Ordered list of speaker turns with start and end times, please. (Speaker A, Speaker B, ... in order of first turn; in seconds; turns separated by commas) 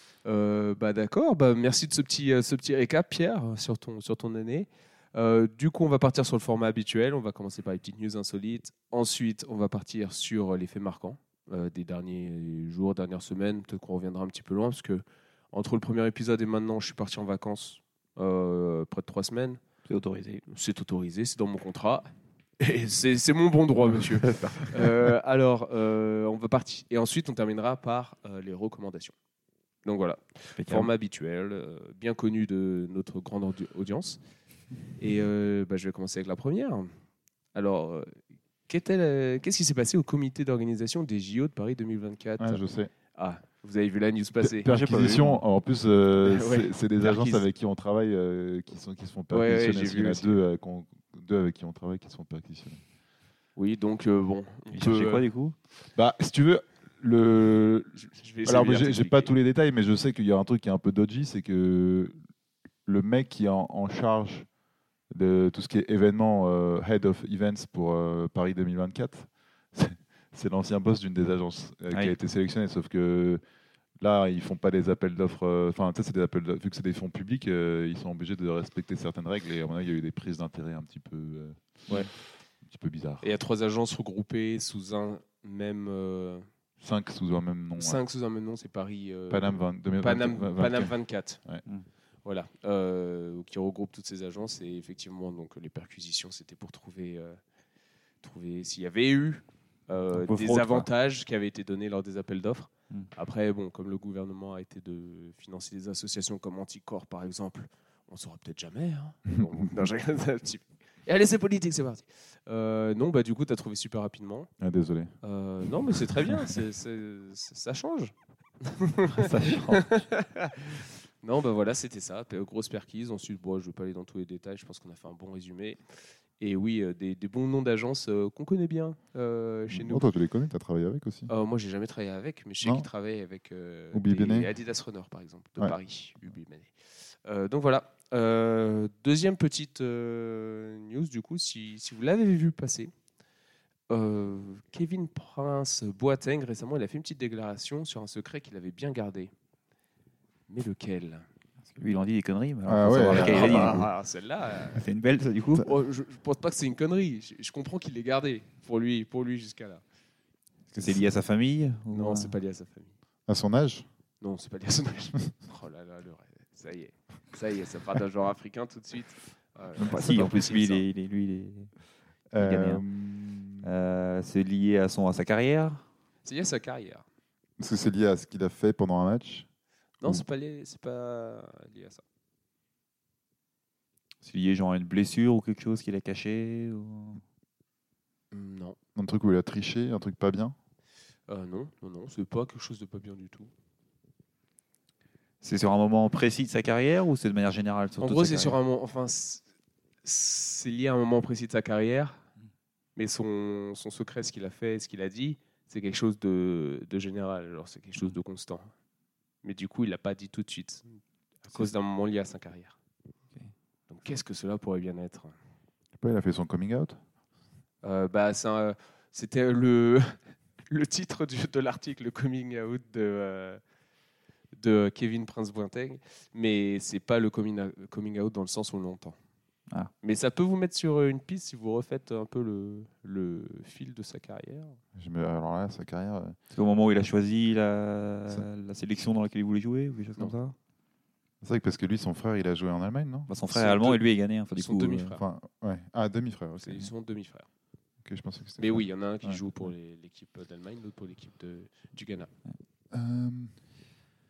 Speaker A: 0.2-19.6, Speaker B: 19.9-20.4, Speaker A: 20.5-22.1, Speaker A: 22.6-29.1, Speaker B: 24.2-24.7, Speaker A: 29.9-34.2, Speaker B: 30.6-30.9, Speaker A: 35.0-36.9, Speaker A: 37.5-38.1, Speaker A: 38.7-42.6, Speaker C: 42.4-42.9, Speaker A: 43.1-44.8, Speaker C: 44.4-52.8, Speaker B: 44.6-45.4, Speaker A: 46.3-47.5, Speaker A: 49.3-50.4, Speaker A: 53.6-55.3, Speaker B: 54.7-55.5, Speaker C: 56.0-62.1, Speaker A: 58.0-59.3, Speaker C: 62.9-64.5, Speaker C: 65.1-73.4, Speaker C: 74.0-82.0, Speaker C: 82.6-83.2, Speaker A: 83.2-86.5, Speaker C: 86.8-88.0, Speaker A: 87.8-91.4, Speaker C: 89.3-90.9, Speaker A: 92.2-97.4, Speaker A: 98.2-114.5, Speaker B: 100.1-100.9, Speaker C: 114.6-115.2, Speaker A: 115.2-125.8, Speaker B: 119.1-120.0, Speaker A: 126.4-130.1, Speaker C: 129.7-131.3, Speaker A: 131.3-142.9, Speaker C: 132.6-132.9, Speaker C: 133.9-134.5, Speaker A: 143.9-149.3, Speaker A: 150.5-151.2, Speaker B: 151.7-153.9, Speaker C: 152.7-153.9, Speaker A: 153.1-154.8, Speaker B: 154.7-155.7, Speaker A: 155.6-159.8, Speaker B: 160.7-162.4, Speaker A: 161.9-162.9, Speaker C: 163.3-163.9, Speaker A: 164.2-170.9, Speaker B: 169.8-171.7, Speaker C: 172.3-173.7, Speaker B: 172.4-172.8, Speaker B: 173.6-175.8, Speaker A: 176.2-177.0, Speaker C: 177.6-179.5, Speaker A: 180.0-182.0, Speaker B: 184.2-187.2, Speaker A: 188.3-188.8, Speaker C: 189.0-190.6, Speaker A: 191.3-193.5, Speaker B: 195.4-198.6, Speaker A: 198.0-199.4, Speaker A: 200.0-202.2, Speaker A: 203.0-208.7, Speaker A: 209.4-210.9, Speaker A: 211.4-212.8, Speaker A: 213.9-215.3, Speaker C: 216.0-217.0, Speaker A: 217.8-220.2, Speaker A: 220.7-223.6, Speaker A: 224.6-229.2, Speaker A: 230.0-234.8, Speaker C: 234.9-236.4, Speaker B: 236.5-240.6, Speaker C: 241.4-243.3, Speaker B: 243.3-245.1, Speaker A: 243.5-244.0, Speaker A: 244.6-245.2, Speaker C: 245.2-246.9, Speaker A: 246.6-247.5, Speaker C: 248.0-249.4, Speaker A: 248.6-252.3, Speaker C: 252.9-253.5